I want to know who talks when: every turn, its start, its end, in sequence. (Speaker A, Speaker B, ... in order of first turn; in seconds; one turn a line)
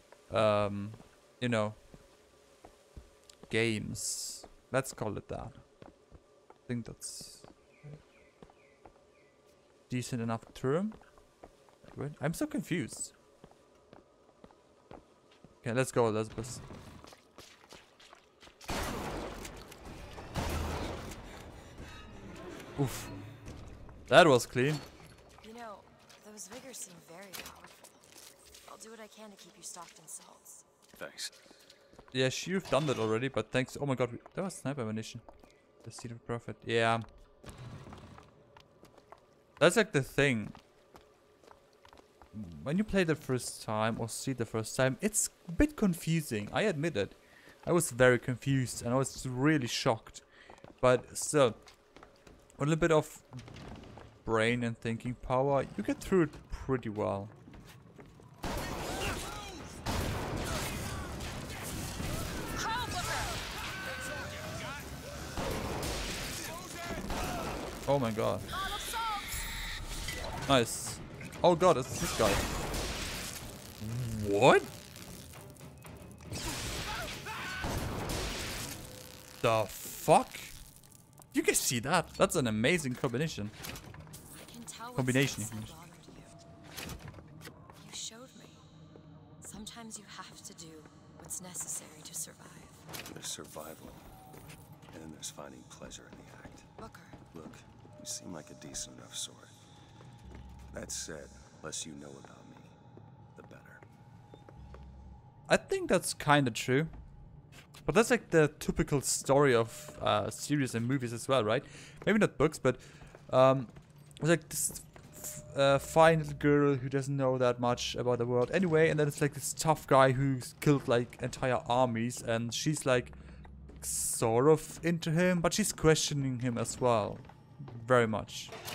Speaker A: 0.3-1.8
Speaker A: 3.5-5.6
Speaker A: 6.7-8.0
Speaker A: 9.9-11.0
Speaker A: 11.9-13.1
Speaker A: 15.6-16.6
Speaker A: 22.8-23.1
Speaker A: 24.1-24.8
Speaker B: 25.4-28.0
Speaker B: 28.7-30.6
Speaker C: 31.0-31.3
Speaker A: 32.1-35.2
Speaker A: 35.9-37.1
Speaker A: 39.6-40.6
Speaker A: 42.3-50.2
Speaker A: 50.8-51.6
Speaker A: 52.6-53.5
Speaker A: 54.2-57.3
Speaker B: 62.5-63.4
Speaker A: 67.9-68.5
Speaker B: 68.5-69.5
Speaker A: 70.5-72.5
Speaker A: 73.8-74.7
Speaker A: 79.4-80.5
Speaker A: 81.3-83.5
Speaker B: 84.3-86.4
Speaker A: 85.0-85.7
Speaker B: 87.8-88.6
Speaker B: 89.4-92.8
Speaker C: 93.1-94.1
Speaker C: 94.9-96.7
Speaker B: 96.8-97.2
Speaker C: 97.3-99.5
Speaker C: 100.7-102.7
Speaker C: 103.4-103.8
Speaker A: 105.5-106.9
Speaker A: 107.9-123.2
Speaker A: 123.8-128.5